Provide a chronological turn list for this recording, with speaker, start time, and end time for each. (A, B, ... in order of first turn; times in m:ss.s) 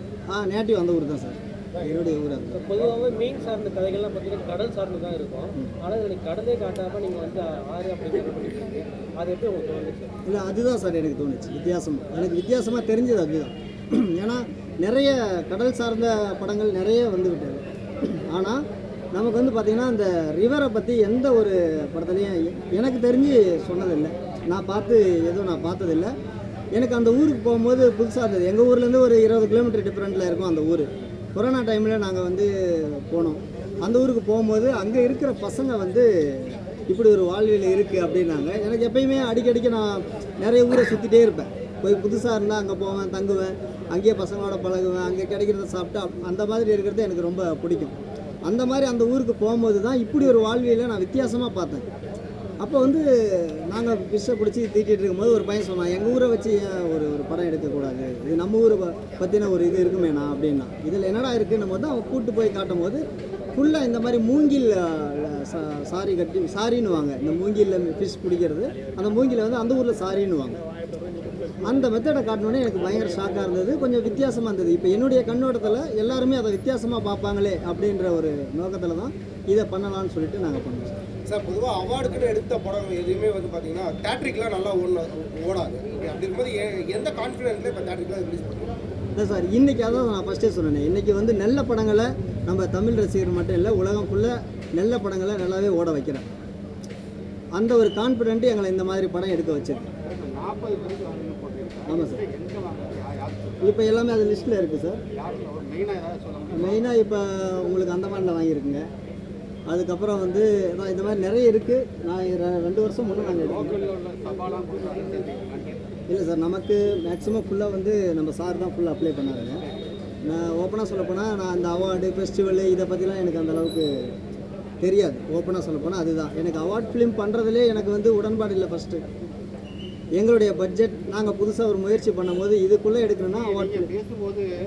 0:00.3-0:02.6 A
0:02.5-0:10.1 B
0:10.3-0:18.6 A
0:19.1-0:26.1 A
0:26.8-0:48.0 A
0:48.5-0:51.8 A
0:52.6-1:03.0 A
1:03.5-1:10.6 A
1:11.6-1:21.0 A
1:21.3-1:28.7 C
1:29.2-1:36.3 A
1:37.6-1:39.8 A
1:39.8-1:43.9 D
1:41.9-1:42.2 A
1:43.6-1:45.0 A
1:45.1-1:46.8 D
1:46.5-1:48.9 A
1:49.7-1:53.8 A
1:53.2-1:55.8 D
1:56.1-1:59.6 A
1:59.4-1:59.8 D
2:00.3-2:04.1 A
2:04.8-2:09.0 A
2:10.2-2:13.9 A
2:13.3-2:14.5 D